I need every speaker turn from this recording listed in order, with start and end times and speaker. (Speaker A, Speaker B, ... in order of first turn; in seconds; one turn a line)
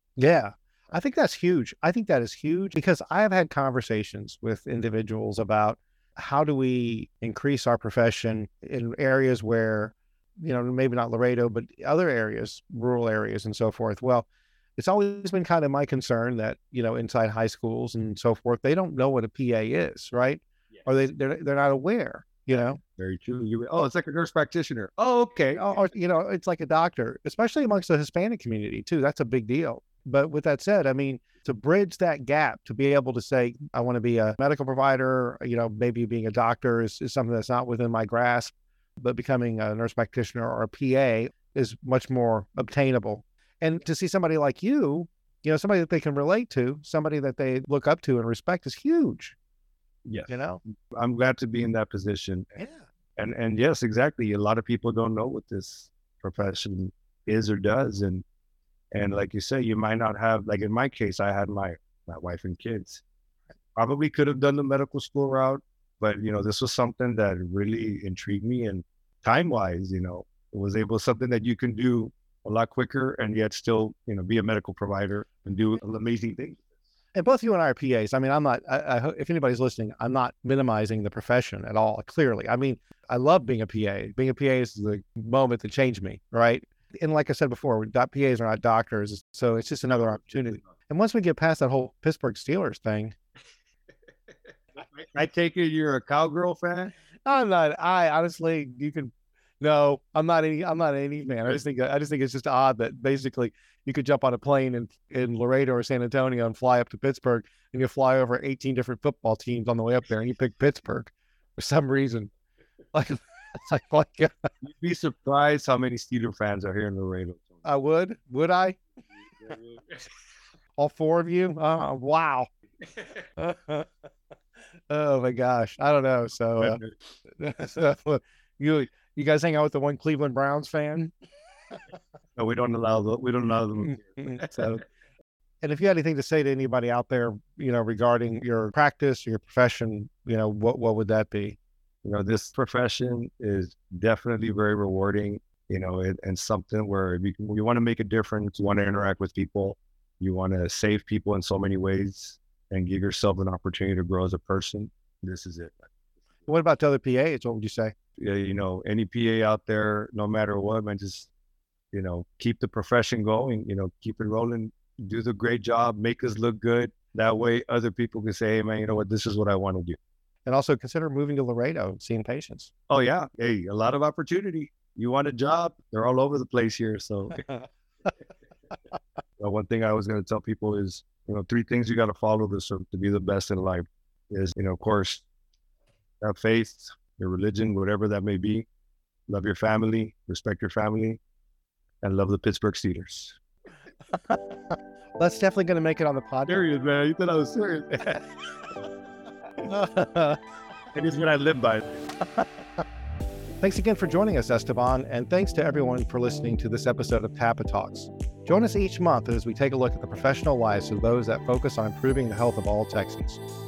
Speaker A: 0.2-22.8
Speaker B: 23.0-25.6
Speaker A: 25.5-49.4
Speaker B: 50.0-52.6
Speaker A: 50.3-50.6
Speaker B: 53.1-58.2
Speaker B: 58.9-63.0
Speaker B: 63.8-76.6
Speaker A: 77.1-93.1
Speaker B: 94.9-96.9
Speaker A: 97.2-112.3
Speaker A: 112.9-114.5
Speaker B: 114.6-117.4
Speaker A: 117.6-118.8
Speaker A: 120.8-122.5
Speaker A: 123.4-123.9
Speaker A: 124.9-126.8
Speaker B: 126.6-126.9
Speaker A: 127.4-131.1
Speaker B: 132.3-134.7
Speaker A: 134.0-134.8
Speaker A: 135.6-141.6
Speaker B: 142.0-155.9
Speaker A: 156.5-157.9
Speaker B: 158.2-161.3
Speaker B: 161.9-170.0
Speaker A: 170.4-172.7
Speaker B: 172.9-177.4
Speaker B: 179.4-185.2
Speaker B: 186.2-188.7
Speaker B: 189.3-191.2
Speaker B: 192.0-193.4
Speaker A: 195.2-196.6
Speaker B: 196.5-198.2
Speaker A: 199.6-200.4
Speaker B: 200.9-201.8
Speaker A: 203.6-213.4